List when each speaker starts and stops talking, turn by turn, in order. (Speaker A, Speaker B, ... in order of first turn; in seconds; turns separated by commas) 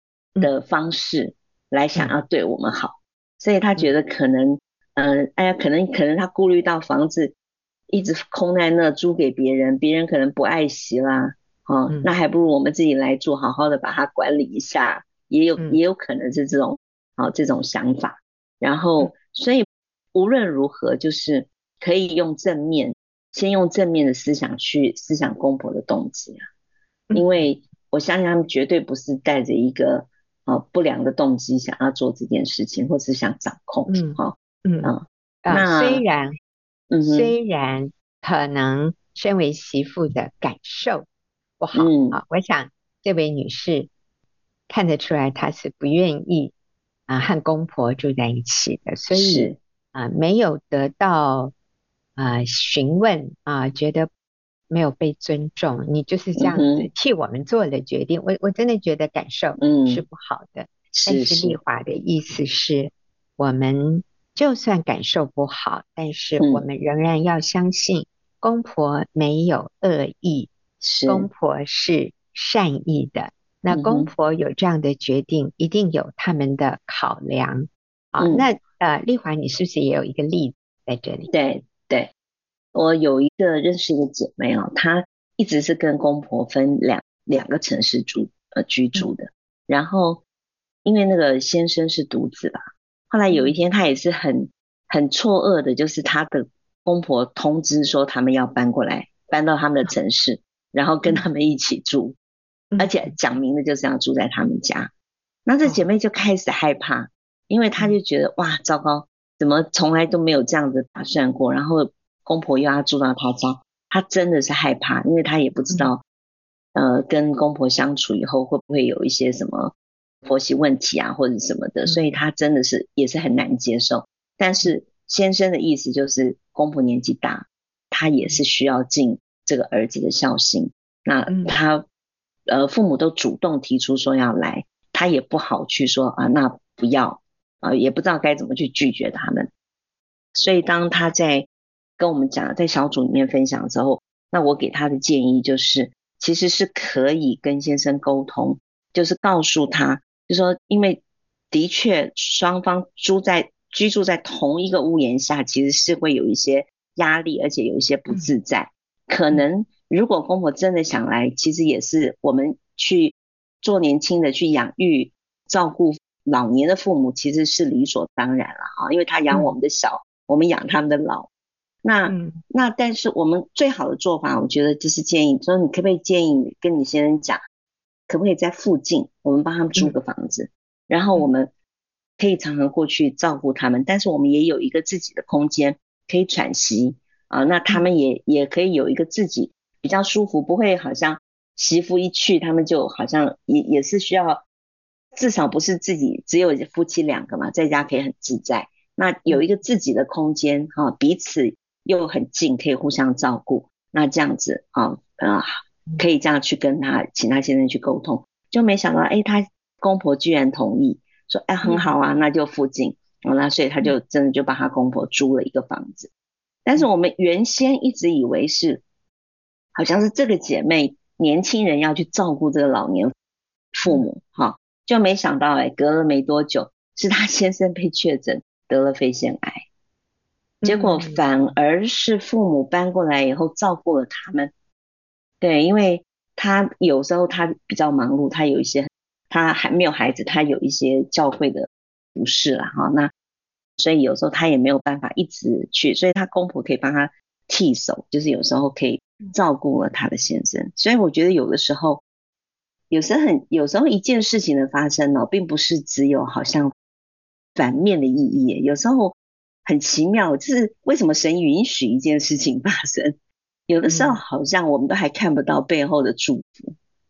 Speaker A: 0.4-7.3, Speaker A: 7.9-26.4, Speaker B: 27.1-27.4, Speaker A: 27.1-36.0, Speaker B: 33.9-34.9, Speaker B: 35.4-36.3, Speaker A: 36.9-37.3, Speaker B: 37.0-41.1, Speaker B: 41.6-43.9, Speaker A: 41.7-42.2, Speaker B: 44.7-46.5, Speaker B: 47.1-51.5, Speaker A: 49.1-49.6, Speaker B: 52.2-54.1, Speaker B: 54.7-70.5, Speaker A: 56.4-56.9, Speaker A: 59.6-60.0, Speaker A: 61.0-61.6, Speaker A: 70.8-71.3, Speaker B: 71.0-81.3, Speaker A: 73.7-74.1, Speaker A: 78.2-78.5, Speaker A: 81.3-82.1, Speaker A: 82.7-90.2, Speaker A: 90.8-102.2, Speaker B: 102.7-103.1, Speaker A: 102.8-104.9, Speaker A: 105.5-116.0, Speaker A: 116.7-131.8, Speaker B: 121.9-122.2, Speaker A: 132.5-139.5, Speaker A: 140.3-141.5, Speaker A: 142.0-171.3, Speaker A: 171.8-177.4, Speaker B: 172.1-172.4, Speaker A: 178.1-181.5, Speaker A: 182.2-194.4, Speaker A: 195.1-216.1, Speaker A: 216.6-218.8, Speaker A: 219.7-223.1, Speaker A: 223.7-229.7, Speaker B: 230.6-231.2, Speaker A: 230.6-234.5, Speaker A: 235.4-243.1, Speaker A: 243.8-252.0, Speaker A: 252.9-256.7, Speaker A: 257.6-263.2, Speaker A: 263.7-266.8, Speaker B: 263.9-264.2